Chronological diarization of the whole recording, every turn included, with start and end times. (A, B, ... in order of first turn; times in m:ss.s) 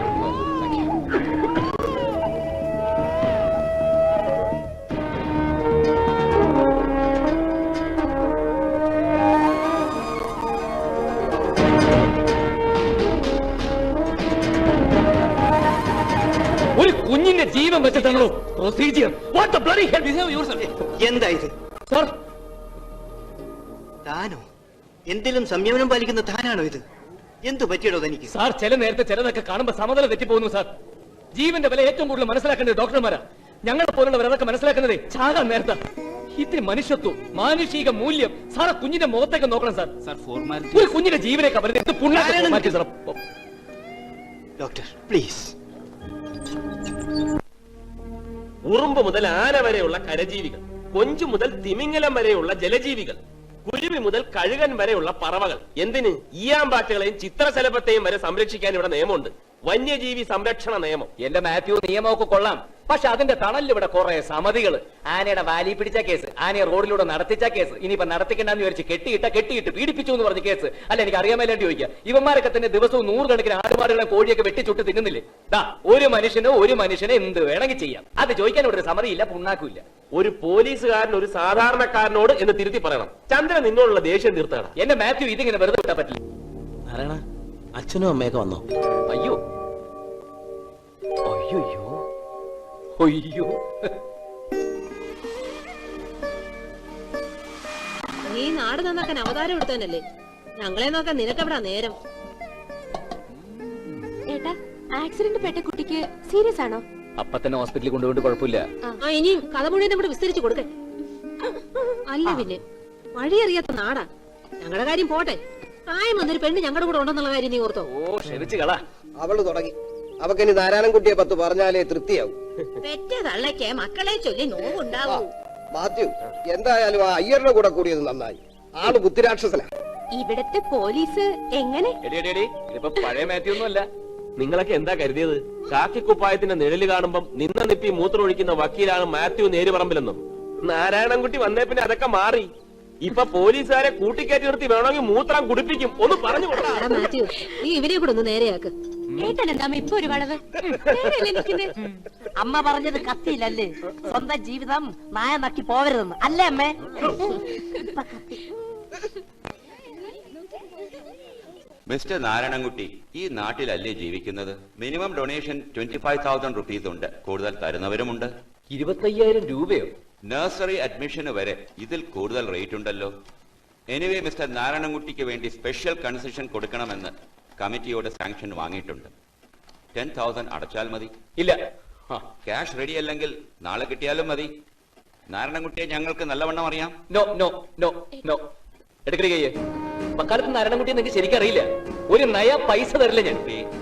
0:00.2-0:00.9 A
0:16.8-0:20.5 A
0:21.0-0:21.5 B
0:24.1-0:24.4 B
0:25.1-0:26.8 B
0:27.4-0:28.2 B
0:28.3-0:30.7 A
0:31.4-0:35.8 A
0:36.4-0:39.9 A
0:40.1-0:40.9 C
0:40.7-0:43.2 A
0:44.6-0:45.5 B
0:48.6-1:01.1 D
1:01.2-1:19.8 A
1:20.2-1:24.7 D
1:24.8-1:26.2 A
1:26.9-1:27.2 C
1:27.8-1:28.6 C
1:29.1-1:29.4 A
1:31.3-1:32.0 A
1:33.0-1:33.6 A
1:38.3-1:40.0 E
1:40.6-1:42.0 E
1:44.3-1:46.8 F
1:47.2-1:48.7 A
1:49.0-1:50.7 E
1:51.8-1:52.6 E
1:53.2-1:54.1 E
1:54.6-1:55.4 E
1:55.9-1:57.9 E
1:57.9-1:58.8 A
1:59.2-2:02.4 G
2:03.1-2:04.6 E
2:05.0-2:09.7 G
2:10.2-2:12.0 F
2:12.0-2:13.9 A
2:14.4-2:27.1 D
2:26.7-2:28.7 E
2:29.2-2:30.4 F
2:30.8-2:31.4 D
2:30.8-2:31.7 E
2:32.4-2:38.4 H
2:41.9-2:48.3 I
2:48.7-2:49.9 A
2:50.3-2:53.1 I
2:53.9-2:59.1 I
3:00.0-3:01.1 I
3:02.4-3:04.5 I
3:05.3-3:06.9 I
3:07.1-3:08.5 A
3:09.1-3:09.5 A
3:10.2-3:13.4 A